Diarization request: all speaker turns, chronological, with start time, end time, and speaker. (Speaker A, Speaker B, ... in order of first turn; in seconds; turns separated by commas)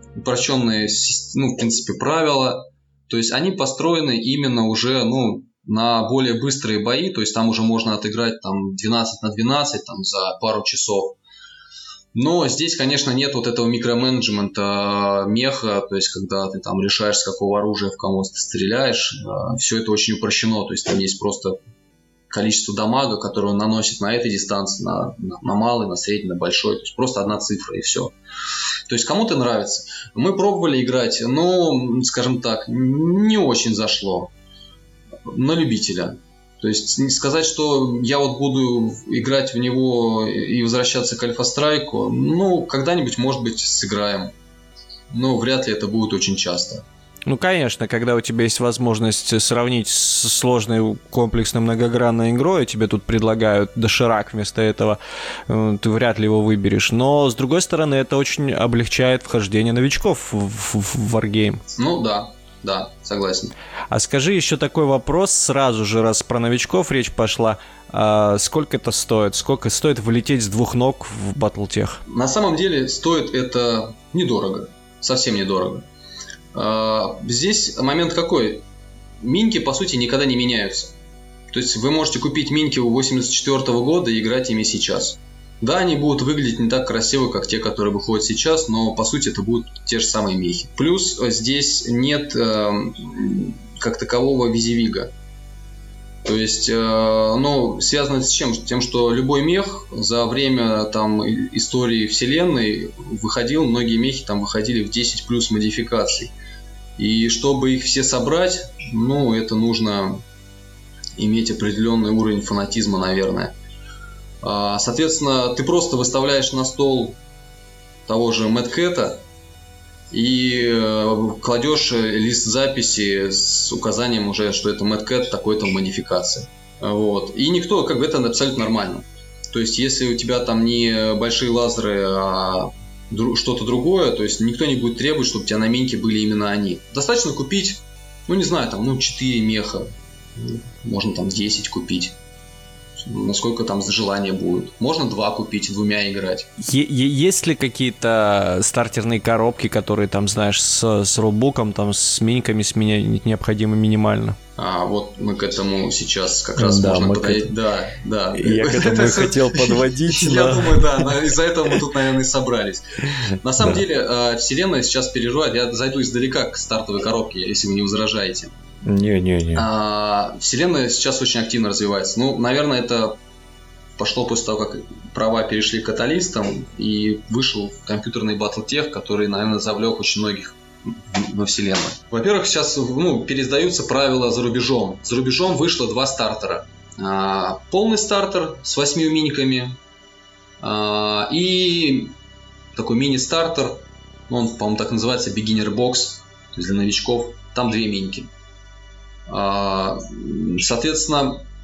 Speaker A: 0.2-11.2, Speaker A: 12.2-21.6, Speaker A: 22.3-28.1, Speaker A: 28.9-34.3, Speaker A: 35.3-44.3, Speaker A: 45.1-46.8, Speaker B: 47.3-61.6, Speaker A: 61.8-63.5, Speaker B: 63.9-72.0, Speaker A: 72.1-75.9, Speaker A: 76.5-78.6, Speaker A: 79.2-81.0, Speaker A: 81.5-95.1, Speaker A: 96.2-106.3, Speaker A: 107.0-110.2, Speaker A: 111.2-113.5, Speaker A: 114.4-117.2, Speaker A: 118.1-119.2, Speaker A: 120.1-142.2, Speaker A: 143.0-146.5, Speaker B: 146.6-154.4, Speaker A: 154.6-168.5, Speaker C: 156.6-157.5, Speaker C: 158.3-161.2, Speaker C: 163.6-163.8, Speaker C: 168.8-169.7, Speaker A: 169.6-173.2, Speaker A: 174.0-189.8, Speaker A: 190.6-192.2, Speaker A: 192.8-198.3, Speaker A: 199.3-201.4